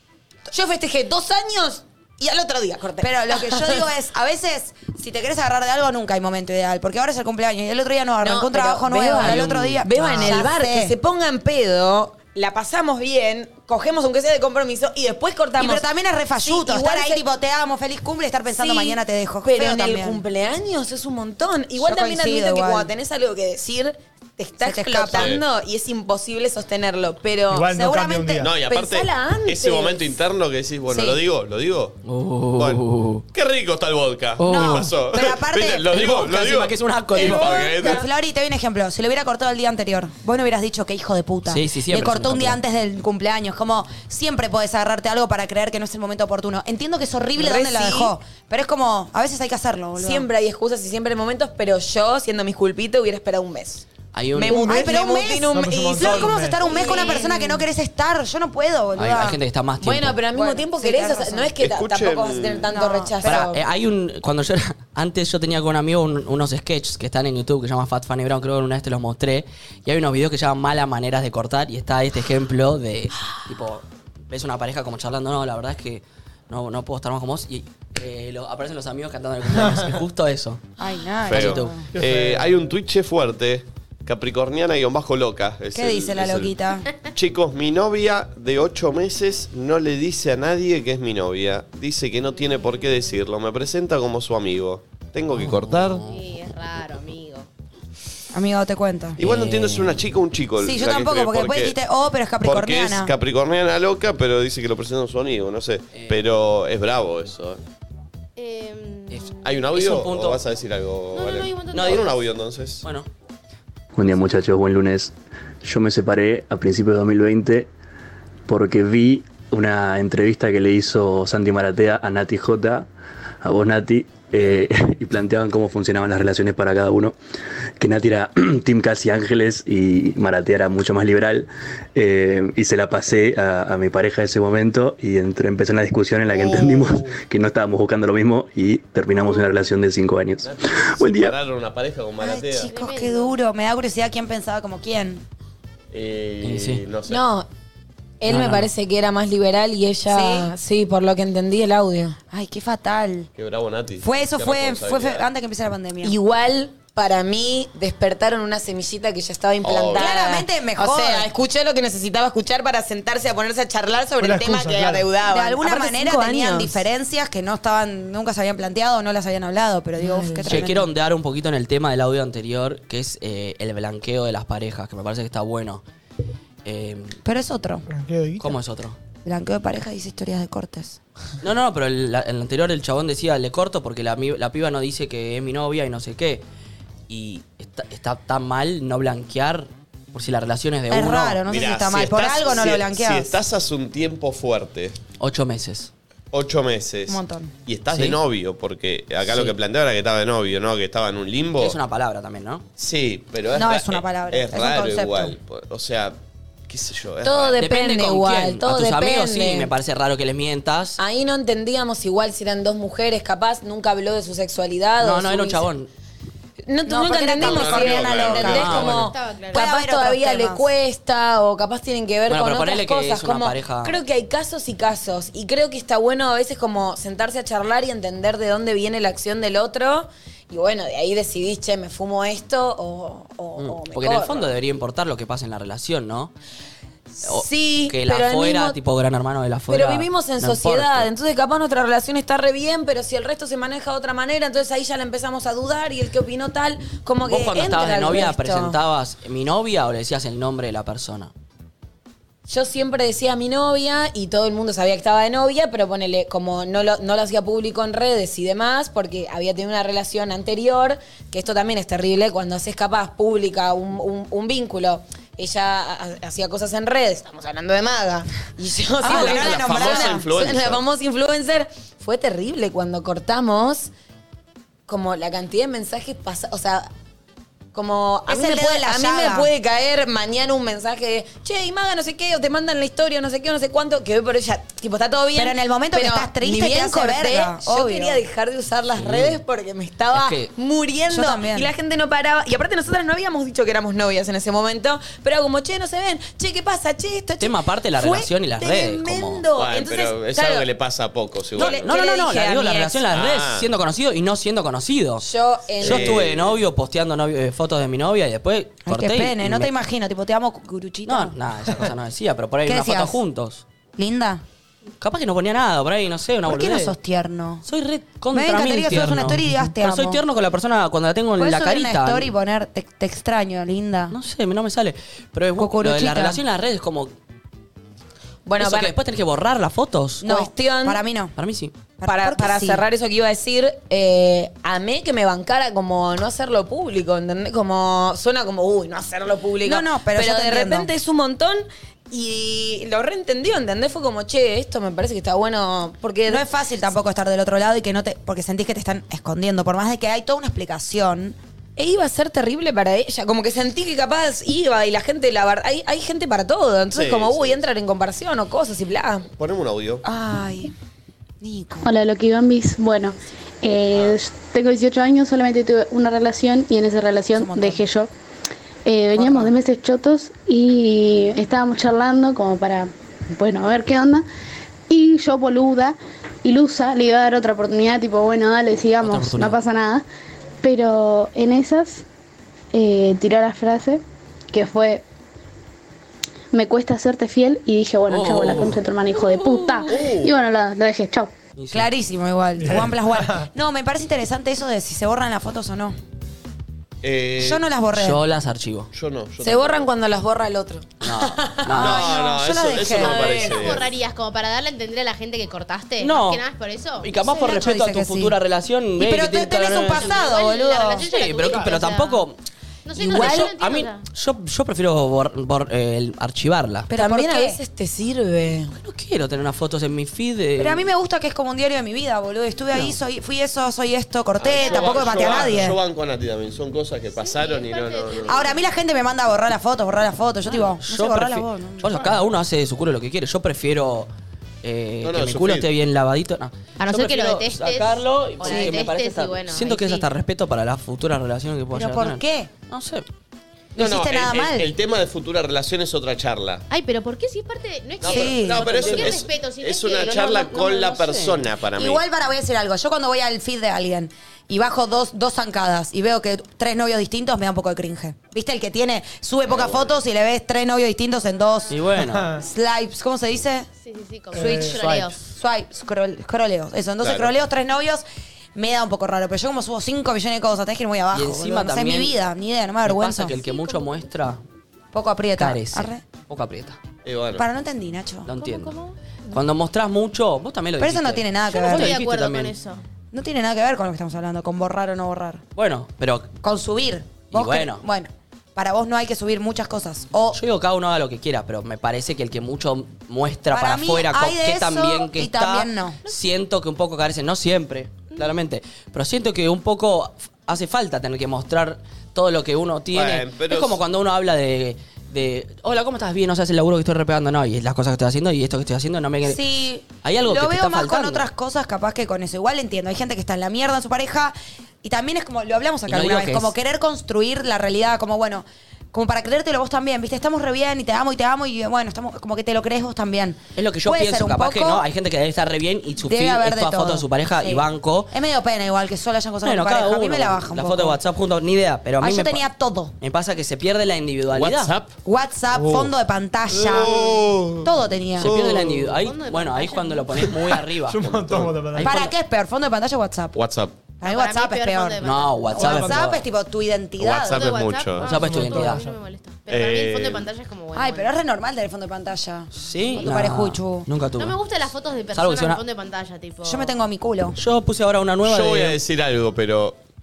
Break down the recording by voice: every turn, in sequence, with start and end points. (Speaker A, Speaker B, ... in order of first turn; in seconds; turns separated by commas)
Speaker A: 0.5-3.9, Speaker B: 3.0-10.9, Speaker A: 8.2-15.9, Speaker C: 9.2-9.8, Speaker D: 9.9-10.4, Speaker B: 15.6-20.2, Speaker A: 16.4-17.2, Speaker A: 18.5-27.7, Speaker B: 21.8-22.9, Speaker B: 24.6-25.4, Speaker E: 25.1-25.4, Speaker D: 27.5-28.5, Speaker B: 27.7-28.5, Speaker E: 28.4-32.0, Speaker A: 28.6-30.1, Speaker B: 30.9-31.2, Speaker C: 32.0-33.2, Speaker E: 32.6-38.1, Speaker C: 34.4-34.9, Speaker B: 34.5-36.4, Speaker C: 35.9-37.7, Speaker B: 37.2-50.2, Speaker C: 41.5-42.6, Speaker A: 47.4-48.1, Speaker A: 50.0-53.9, Speaker C: 54.1-54.9, Speaker A: 54.4-57.6, Speaker B: 54.7-59.4, Speaker D: 55.5-56.6, Speaker C: 59.0-60.2, Speaker A: 59.8-63.6, Speaker B: 60.3-61.5, Speaker E: 61.6-62.7, Speaker B: 62.7-63.5, Speaker C: 63.2-80.6, Speaker D: 79.6-79.9, Speaker B: 80.8-81.9, Speaker E: 81.2-86.6, Speaker C: 81.3-81.7, Speaker D: 81.9-82.6, Speaker B: 85.8-86.9, Speaker E: 87.1-96.0, Speaker F: 92.4-93.0, Speaker C: 95.3-96.3, Speaker F: 96.1-97.5, Speaker B: 98.3-99.2, Speaker E: 99.2-101.8, Speaker C: 99.2-100.0, Speaker B: 100.6-103.1, Speaker E: 102.4-107.6, Speaker C: 105.9-106.2, Speaker F: 108.4-109.4, Speaker C: 109.1-110.4, Speaker E: 109.4-112.8, Speaker F: 111.1-112.2, Speaker C: 111.7-112.1, Speaker C: 112.8-113.1, Speaker G: 114.0-115.1, Speaker G: 115.6-117.7, Speaker G: 118.5-122.9, Speaker G: 123.4-127.2, Speaker G: 127.8-141.4, Speaker E: 140.4-142.7, Speaker B: 142.2-145.2, Speaker F: 142.7-143.4, Speaker E: 145.9-147.2, Speaker C: 146.4-146.8, Speaker A: 147.1-147.5, Speaker A: 148.2-152.2, Speaker C: 148.3-148.7, Speaker B: 150.1-150.5, Speaker B: 152.3-153.3, Speaker E: 153.4-155.3, Speaker B: 154.0-156.2, Speaker A: 156.0-166.8, Speaker E: 159.6-160.2, Speaker B: 159.9-161.3, Speaker D: 164.2-165.1, Speaker B: 165.2-170.9, Speaker A: 170.0-170.6, Speaker C: 170.4-175.8, Speaker C: 176.7-177.2, Speaker B: 177.2-177.9, Speaker D: 177.9-178.6, Speaker C: 178.4-179.0, Speaker B: 179.2-181.0, Speaker C: 181.4-186.4, Speaker C: 187.1-191.4, Speaker B: 190.9-193.3, Speaker E: 191.5-195.0, Speaker C: 195.2-195.9, Speaker E: 196.3-201.8, Speaker B: 197.1-197.5, Speaker C: 197.9-198.2, Speaker C: 199.3-199.6, Speaker C: 201.6-202.7, Speaker E: 202.8-207.6, Speaker B: 203.5-205.3, Speaker A: 207.2-209.7, Speaker C: 207.6-211.0, Speaker A: 211.0-215.7, Speaker C: 215.0-215.9, Speaker A: 216.7-234.5, Speaker B: 216.9-218.8, Speaker E: 217.4-219.0, Speaker C: 218.5-219.1, Speaker F: 218.9-219.7, Speaker B: 219.5-220.7, Speaker C: 222.3-224.0, Speaker C: 233.6-236.3, Speaker A: 237.2-238.8, Speaker C: 237.2-241.1, Speaker A: 239.7-248.8, Speaker C: 247.3-251.3, Speaker A: 252.5-273.9, Speaker B: 269.0-270.2, Speaker E: 269.0-270.8, Speaker A: 274.9-276.9, Speaker A: 277.7-300.7, Speaker B: 278.3-279.5, Speaker B: 285.4-288.2, Speaker C: 289.0-289.4, Speaker C: 290.1-290.5, Speaker B: 291.1-291.7, Speaker C: 297.4-299.4, Speaker E: 299.6-301.9, Speaker A: 301.5-303.0, Speaker C: 301.6-305.3, Speaker E: 303.1-303.7, Speaker A: 305.2-306.2, Speaker E: 305.8-306.6, Speaker C: 305.8-309.7, Speaker B: 308.9-311.4, Speaker C: 311.1-313.6, Speaker B: 312.7-313.2, Speaker B: 314.0-314.4, Speaker C: 315.0-316.9, Speaker B: 316.4-317.7, Speaker C: 317.6-322.3, Speaker B: 318.3-320.2, Speaker D: 319.1-319.6, Speaker B: 321.4-324.2, Speaker C: 324.1-327.1, Speaker B: 325.6-326.4, Speaker A: 328.5-328.9, Speaker C: 328.6-330.2, Speaker B: 330.2-331.3, Speaker A: 330.2-331.0, Speaker C: 331.4-331.7, Speaker B: 332.0-332.8, Speaker A: 332.1-346.5, Speaker B: 339.6-340.9, Speaker B: 346.3-351.4, Speaker A: 351.8-359.3, Speaker E: 356.9-357.6, Speaker E: 359.4-360.1, Speaker B: 360.1-360.7, Speaker B: 361.4-362.0, Speaker H: 361.8-368.1, Speaker E: 363.9-364.2, Speaker B: 367.3-367.9, Speaker H: 368.9-374.2, Speaker B: 369.1-369.5, Speaker H: 374.9-380.1, Speaker C: 379.0-379.6, Speaker H: 380.6-382.1, Speaker H: 382.7-384.0, Speaker H: 384.5-385.0, Speaker H: 386.5-391.3, Speaker C: 388.1-390.0, Speaker E: 389.9-390.3, Speaker C: 391.6-391.9, Speaker B: 391.7-396.0, Speaker D: 392.6-393.5, Speaker E: 397.0-397.6, Speaker B: 397.4-398.2, Speaker C: 397.9-398.9, Speaker E: 398.9-399.9, Speaker A: 399.4-401.7, Speaker C: 401.0-402.0, Speaker E: 401.7-403.9, Speaker B: 401.8-403.2, Speaker A: 403.0-403.8, Speaker F: 403.2-407.4, Speaker C: 406.0-406.4, Speaker C: 407.0-410.3, Speaker B: 407.2-408.4, Speaker B: 409.0-411.1, Speaker F: 409.7-412.3, Speaker C: 411.0-412.4, Speaker F: 412.9-414.0, Speaker C: 413.0-416.9, Speaker A: 413.1-413.4, Speaker B: 416.9-417.6, Speaker A: 416.9-418.7, Speaker C: 418.7-420.9, Speaker B: 420.6-425.8, Speaker E: 424.4-428.5, Speaker F: 424.6-425.3, Speaker F: 427.2-428.8, Speaker B: 428.3-432.2, Speaker C: 430.8-434.1, Speaker C: 434.6-443.1, Speaker E: 435.0-435.7, Speaker F: 436.8-440.1, Speaker B: 438.4-438.8, Speaker B: 441.7-442.5, Speaker B: 443.8-444.7, Speaker E: 443.8-446.6, Speaker F: 446.7-450.7, Speaker E: 448.0-452.0, Speaker B: 448.1-449.0, Speaker C: 450.2-451.4, Speaker B: 451.8-461.8, Speaker E: 459.4-460.0, Speaker C: 461.7-462.4, Speaker B: 462.4-463.7, Speaker F: 463.8-465.2, Speaker D: 464.3-465.0, Speaker B: 464.4-468.0, Speaker E: 467.0-467.3, Speaker B: 468.6-473.4, Speaker C: 471.1-472.1, Speaker C: 472.9-474.4, Speaker F: 473.3-474.0, Speaker B: 474.9-476.0, Speaker C: 475.4-476.8, Speaker E: 477.1-477.5, Speaker B: 477.4-478.3, Speaker C: 478.3-478.8, Speaker F: 478.4-478.9, Speaker C: 479.3-482.5, Speaker B: 480.8-482.0, Speaker F: 481.5-482.8, Speaker B: 483.1-485.4, Speaker C: 485.6-486.3, Speaker B: 486.4-490.4, Speaker C: 487.3-487.8, Speaker C: 490.3-509.4, Speaker B: 493.5-496.0, Speaker E: 502.9-503.8, Speaker B: 509.2-524.9, Speaker C: 509.9-511.3, Speaker C: 515.9-516.5, Speaker C: 523.6-528.1, Speaker B: 526.0-531.0, Speaker C: 529.4-532.5, Speaker B: 532.0-532.9, Speaker C: 533.0-534.7, Speaker E: 534.3-535.0, Speaker B: 535.0-537.0, Speaker D: 535.5-535.9, Speaker E: 536.5-539.0, Speaker D: 536.6-537.2, Speaker B: 537.6-538.3, Speaker C: 538.2-541.1, Speaker F: 539.0-540.3, Speaker D: 540.8-542.0, Speaker E: 541.0-541.6, Speaker C: 541.7-542.1, Speaker B: 541.8-543.4, Speaker E: 543.4-543.8, Speaker B: 544.0-545.0, Speaker F: 544.0-546.0, Speaker C: 545.0-546.2, Speaker B: 545.5-547.6, Speaker E: 547.0-548.1, Speaker F: 547.3-551.1, Speaker C: 548.0-548.8, Speaker D: 548.1-549.0, Speaker E: 549.5-550.3, Speaker B: 550.7-553.9, Speaker C: 552.5-554.4, Speaker F: 554.2-556.8, Speaker C: 555.1-555.6, Speaker B: 556.4-557.4, Speaker C: 557.4-558.8, Speaker E: 558.2-559.8